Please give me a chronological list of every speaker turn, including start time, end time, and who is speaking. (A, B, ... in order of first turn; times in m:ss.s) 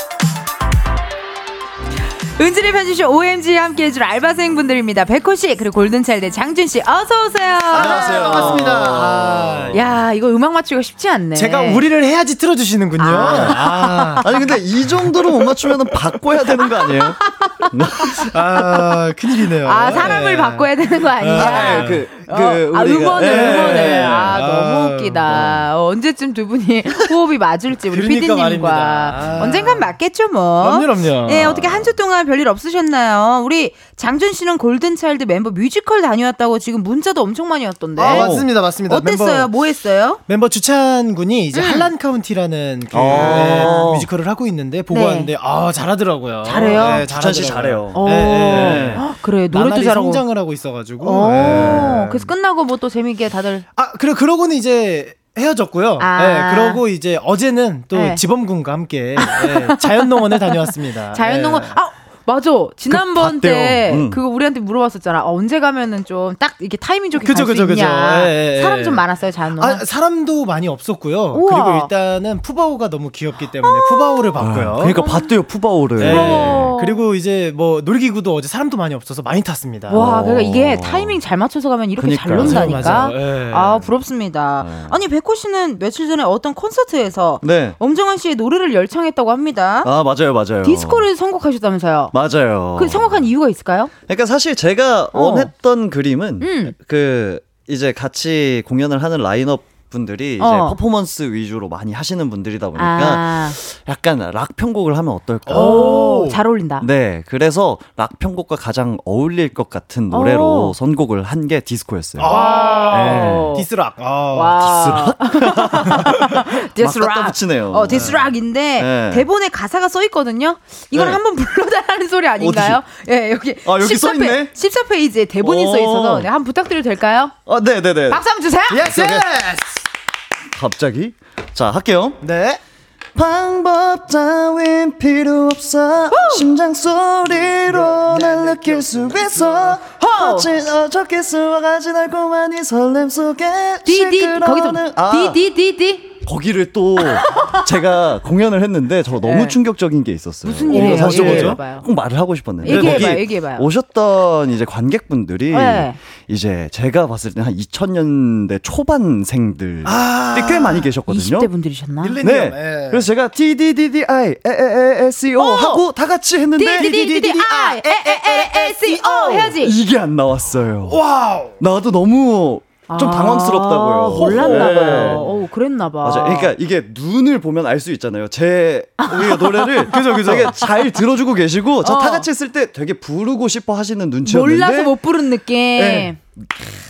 0:02.4-0:08.6 A
0:07.7-0:09.9 B
0:07.7-0:09.8 C
0:09.7-0:11.8 A
0:11.4-0:16.0 B
0:13.0-0:14.2 A
0:13.1-0:18.3 C
0:17.4-0:17.7 A
0:18.2-0:22.1 B
0:19.6-0:40.2 A
0:21.3-0:24.4 C
0:23.2-0:25.3 B
0:25.3-0:25.6 C
0:27.9-0:30.0 B
0:30.6-0:31.9 B
0:38.0-0:39.5 B
0:38.0-0:38.5 C
0:40.3-0:52.3 B
0:41.5-0:41.9 A
0:42.9-0:44.1 C
0:43.1-0:43.9 A
0:44.9-0:45.3 A
0:46.4-0:47.1 A
0:46.5-0:49.1 C
0:48.0-0:50.2 A
0:51.0-0:53.6 A
0:51.4-0:51.9 C
0:53.8-1:01.8 B
0:56.0-0:56.8 A
0:57.9-0:58.2 A
0:59.2-1:09.9 A
1:02.9-1:04.2 C
1:07.2-1:09.0 B
1:09.6-1:15.1 B
1:11.3-1:11.9 A
1:13.6-1:15.3 A
1:14.4-1:16.7 C
1:16.0-1:20.0 B
1:16.0-1:17.0 A
1:19.9-1:29.9 A
1:19.9-1:21.2 C
1:22.0-1:23.2 C
1:22.3-1:23.8 B
1:24.6-1:25.0 C
1:27.4-1:27.8 C
1:29.8-1:31.1 C
1:30.6-1:32.1 A
1:32.1-1:33.3 C
1:32.8-1:33.9 A
1:34.1-1:46.1 C
1:35.1-1:35.5 A
1:36.4-1:36.7 A
1:40.4-1:40.8 A
1:42.8-1:43.6 A
1:45.4-1:46.4 B
1:45.5-1:46.9 A
1:46.8-1:53.5 C
1:50.1-1:50.7 A
1:52.2-1:54.6 B
1:52.2-1:53.7 A
1:54.3-2:07.4 A
1:54.6-1:59.3 C
1:57.9-1:58.2 B
2:00.9-2:01.2 C
2:02.4-2:02.8 C
2:03.6-2:04.5 C
2:05.4-2:06.3 C
2:07.5-2:08.2 C
2:08.1-2:08.9 A
2:08.7-2:09.7 B
2:08.8-2:09.2 C
2:10.5-2:12.2 C
2:12.2-2:12.6 B
2:13.1-2:25.4 C
2:16.1-2:16.4 A
2:17.4-2:19.8 B
2:20.0-2:20.5 A
2:23.8-2:26.2 A
2:26.2-2:41.5 C
2:27.0-2:27.6 A
2:29.2-2:29.6 A
2:30.4-2:31.9 A
2:30.7-2:31.6 B
2:32.6-2:33.7 A
2:32.7-2:33.2 B
2:35.5-2:36.0 A
2:39.8-2:40.9 B
2:41.1-2:42.2 A
2:42.0-2:43.1 B
2:42.2-2:47.4 C
2:45.4-2:45.8 A
2:46.6-2:49.7 A
2:46.8-2:49.5 B
2:49.4-2:51.0 C
2:50.8-2:51.6 B
2:51.6-2:55.3 C
2:52.9-2:56.5 A
2:54.0-2:55.4 B
2:56.0-3:05.0 C
2:59.0-3:00.7 A
2:59.9-3:00.6 B
3:01.8-3:02.3 A
3:04.2-3:06.2 A
3:05.7-3:06.4 C